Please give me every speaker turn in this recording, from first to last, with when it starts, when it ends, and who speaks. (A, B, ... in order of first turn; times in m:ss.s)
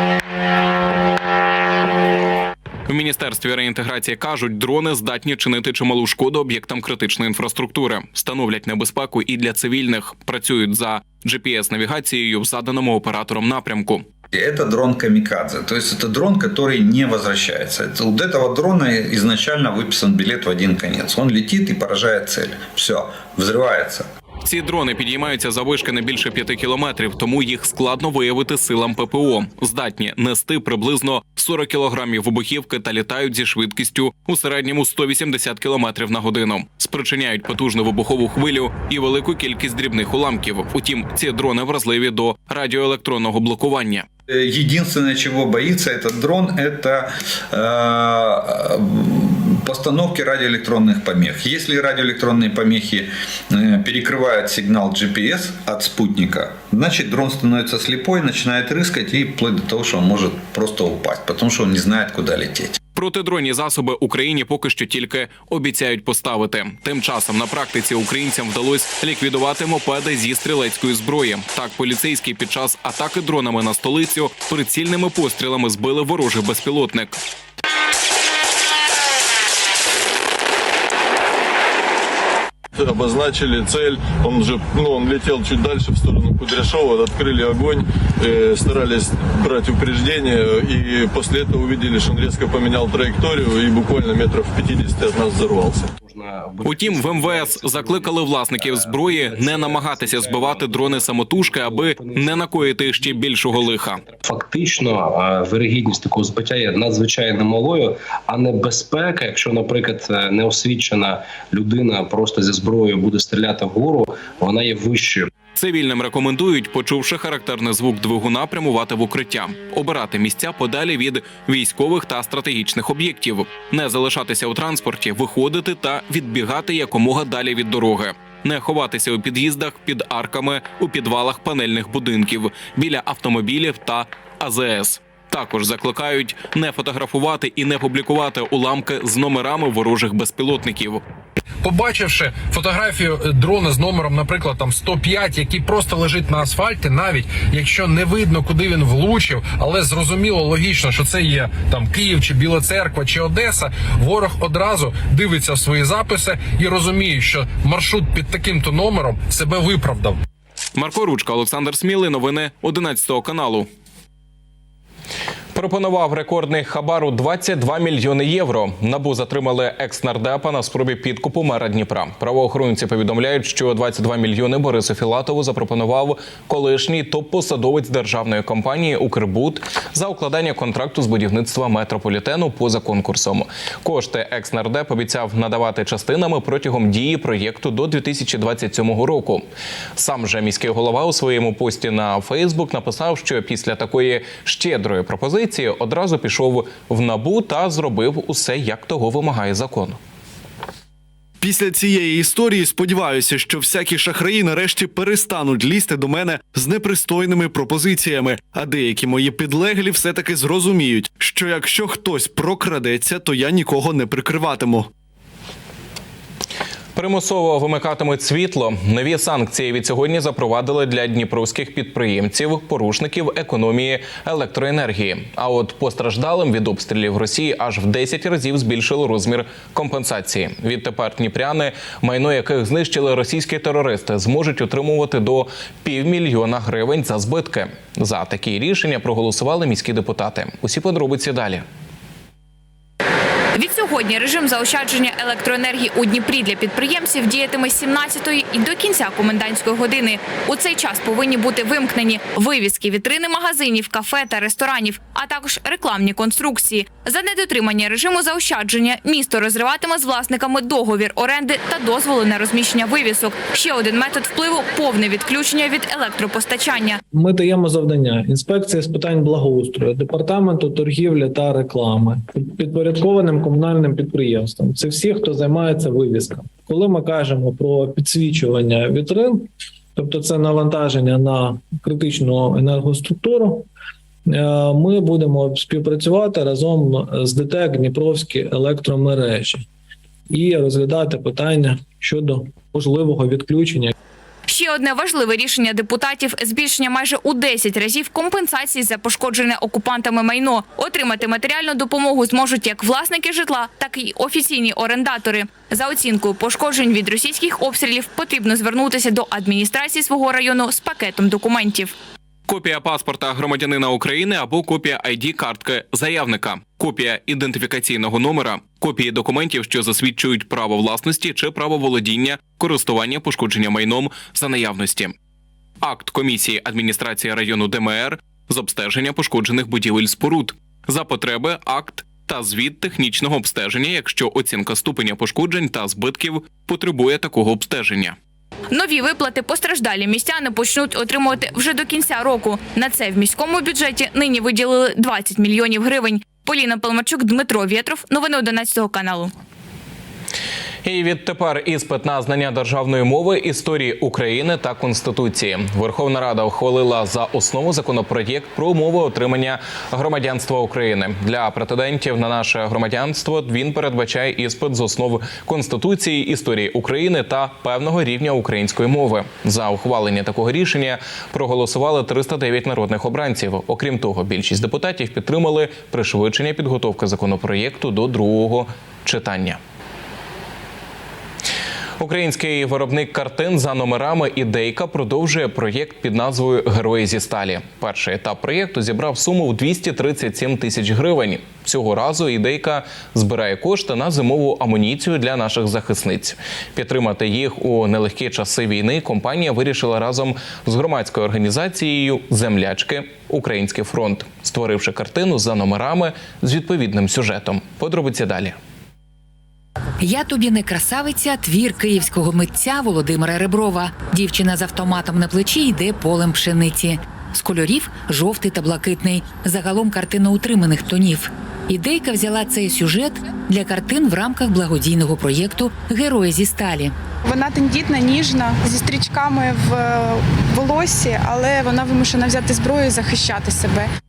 0:02.8-0:14.0 A
0:14.3-0:24.1 B
0:24.4-0:44.1 A
0:44.3-1:02.8 B
1:03.0-1:17.2 A
1:22.8-1:35.9 C
1:36.0-1:55.3 D
1:36.6-1:44.0 A
1:55.5-2:21.0 A
2:21.6-2:40.2 E
2:40.8-2:43.7 A
2:45.5-3:09.4 A
3:10.0-3:20.0 A
3:21.4-3:34.8 F
3:36.9-4:01.6 A
4:03.5-4:27.0 G
4:27.1-4:43.6 H
4:44.3-4:49.6 H
4:50.3-4:53.9 H
4:54.5-5:11.9 G
5:12.5-5:25.1 A
5:25.8-5:38.2 A
5:38.7-5:49.3 G
5:50.8-6:19.6 A
6:22.0-6:48.6 A
6:50.0-7:06.9 I
7:07.2-7:13.9 J